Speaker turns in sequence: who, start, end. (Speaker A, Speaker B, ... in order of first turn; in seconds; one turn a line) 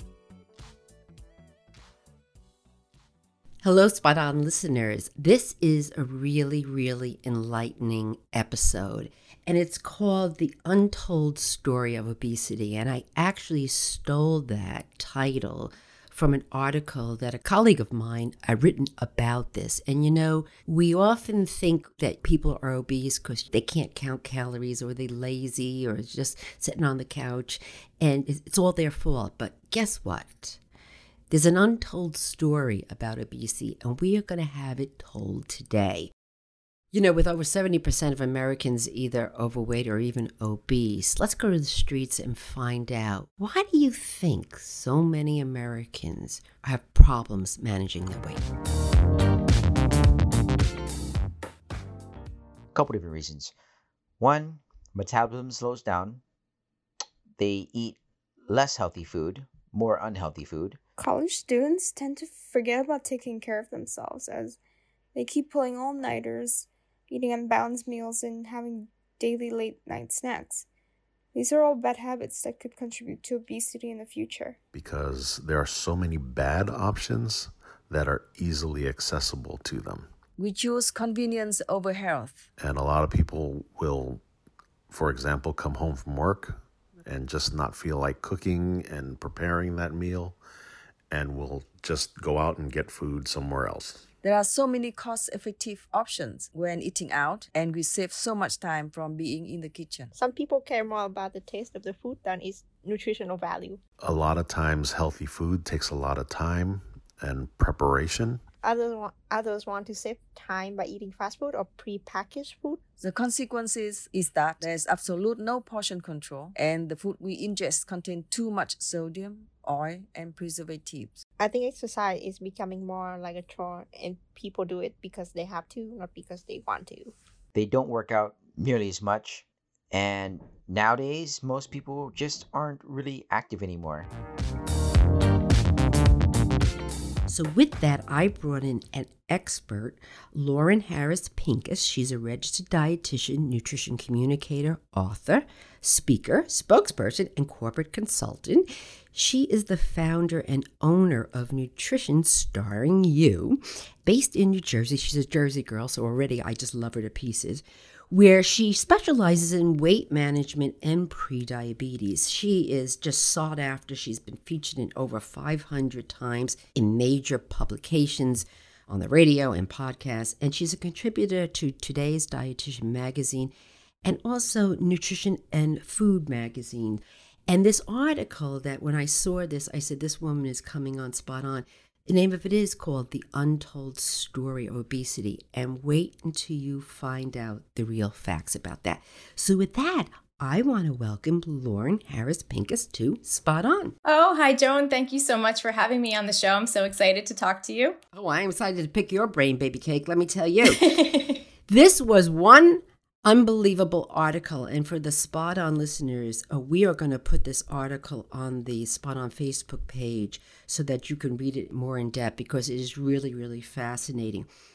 Speaker A: 3.6-30.6
Speaker A: 31.3-36.1
Speaker A: 36.9-48.4
Speaker B: 52.7-53.5
Speaker B: 54.2-56.2
Speaker B: 57.4-60.8
Speaker C: 61.0-64.6
Speaker C: 65.1-70.7
Speaker C: 71.3-74.6
Speaker D: 74.7-80.1
Speaker E: 80.4-82.4
Speaker D: 82.6-84.2
Speaker D: 84.9-90.4
Speaker D: 91.1-94.0
Speaker E: 94.2-100.1
Speaker F: 100.2-103.8
Speaker D: 104.0-108.4
Speaker F: 108.6-112.8
Speaker E: 113.0-121.2
Speaker F: 121.4-127.1
Speaker B: 127.5-134.1
Speaker A: 137.3-173.5
Speaker A: 174.0-193.9
Speaker G: 194.0-198.0
Speaker A: 198.1-201.1
Speaker G: 200.6-201.3
Speaker A: 201.7-214.5